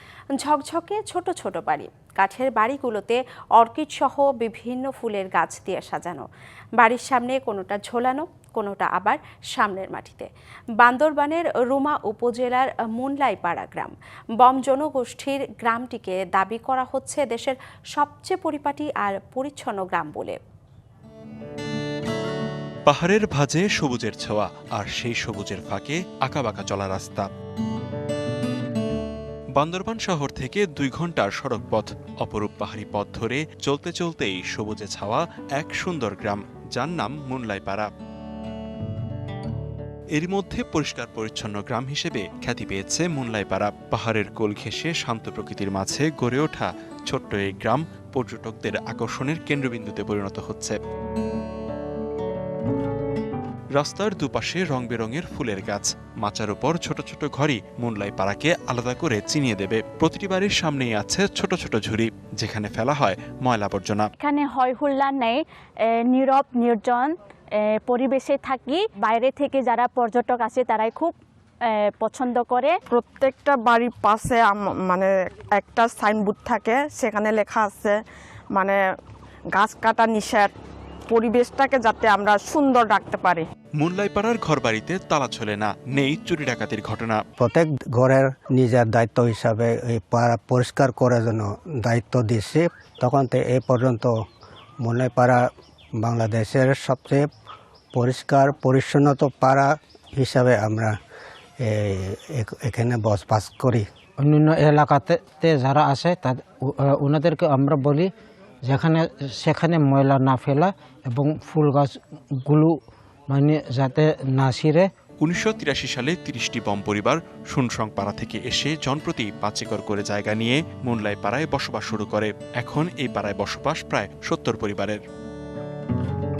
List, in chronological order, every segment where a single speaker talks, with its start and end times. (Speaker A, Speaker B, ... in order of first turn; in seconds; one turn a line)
Speaker A: 0.3-6.3
Speaker A: 6.8-10.3
Speaker A: 10.8-20.4
Speaker B: 22.9-27.3
Speaker B: 29.6-37.9
Speaker B: 40.1-50.8
Speaker B: 53.8-64.1
Speaker C: 64.2-65.4
Speaker C: 66.1-67.1
Speaker C: 67.8-72.8
Speaker D: 72.9-78.0
Speaker D: 78.5-78.8
Speaker D: 79.5-80.5
Speaker D: 81.1-83.4
Speaker B: 83.8-87.2
Speaker E: 87.4-94.1
Speaker E: 94.8-95.4
Speaker E: 96.0-97.3
Speaker E: 97.9-100.9
Speaker E: 101.6-103.8
Speaker F: 104.2-108.1
Speaker F: 108.6-112.8
Speaker F: 113.3-114.9
Speaker B: 115.2-125.0